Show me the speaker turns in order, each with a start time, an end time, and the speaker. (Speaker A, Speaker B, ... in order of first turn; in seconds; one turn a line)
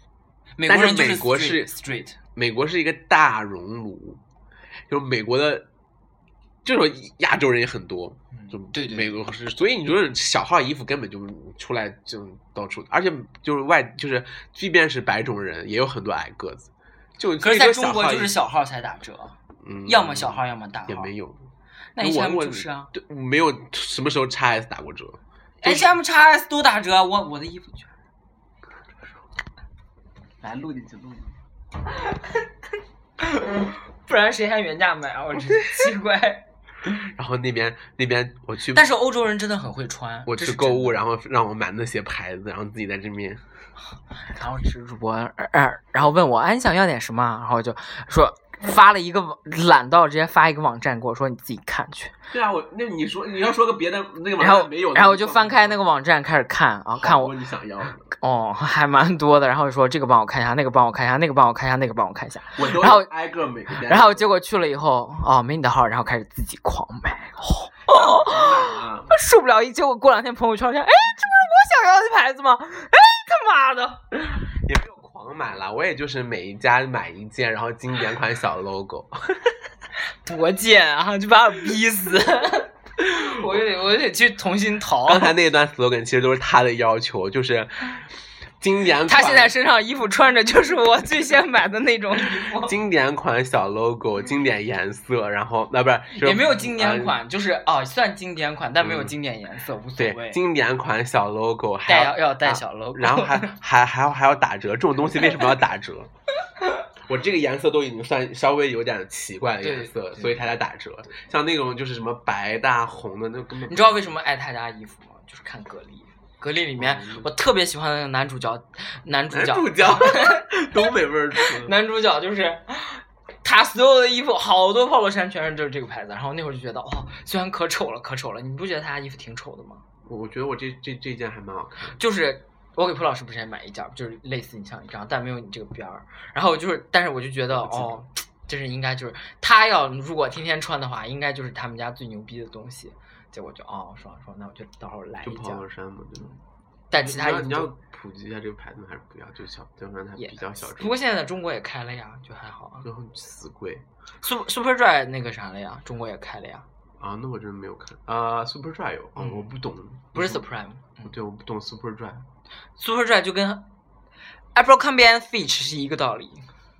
Speaker A: 0.6-2.2
Speaker B: 0.6-1.7
Speaker B: 2.4-4.2
Speaker B: 4.9-5.7
Speaker B: 6.6-18.4
Speaker A: 8.3-9.2
Speaker A: 17.4-21.1
Speaker B: 19.6-21.4
Speaker A: 21.9-22.9
Speaker B: 22.0-25.9
Speaker A: 25.6-27.9
Speaker B: 30.4-31.4
Speaker A: 31.9-32.4
Speaker A: 33.2-36.5
Speaker B: 36.9-38.9
Speaker A: 38.7-41.0
Speaker B: 40.3-43.4
Speaker A: 44.2-52.1
Speaker B: 52.3-55.8
Speaker A: 54.4-57.3
Speaker B: 57.0-58.1
Speaker A: 58.1-63.1
Speaker B: 62.5-64.2
Speaker A: 63.8-74.0
Speaker B: 67.9-69.1
Speaker B: 74.4-79.5
Speaker A: 80.2-85.3
Speaker B: 83.0-83.6
Speaker B: 85.0-88.1
Speaker B: 88.6-89.5
Speaker A: 89.0-92.8
Speaker B: 92.5-97.2
Speaker A: 96.1-100.4
Speaker B: 98.8-99.1
Speaker B: 100.0-106.1
Speaker A: 101.8-103.5
Speaker B: 107.1-114.0
Speaker A: 109.6-110.5
Speaker A: 113.7-129.8
Speaker B: 116.8-117.3
Speaker B: 119.3-121.7
Speaker B: 130.0-132.0
Speaker A: 132.0-145.7
Speaker B: 137.5-138.0
Speaker B: 145.2-146.3
Speaker A: 146.9-147.7
Speaker B: 146.9-151.0
Speaker A: 150.2-152.9
Speaker B: 152.8-153.8
Speaker A: 154.2-156.7
Speaker B: 157.0-160.4
Speaker A: 159.2-159.6
Speaker A: 160.1-161.1
Speaker B: 161.0-162.2
Speaker A: 162.8-163.7
Speaker A: 164.5-166.5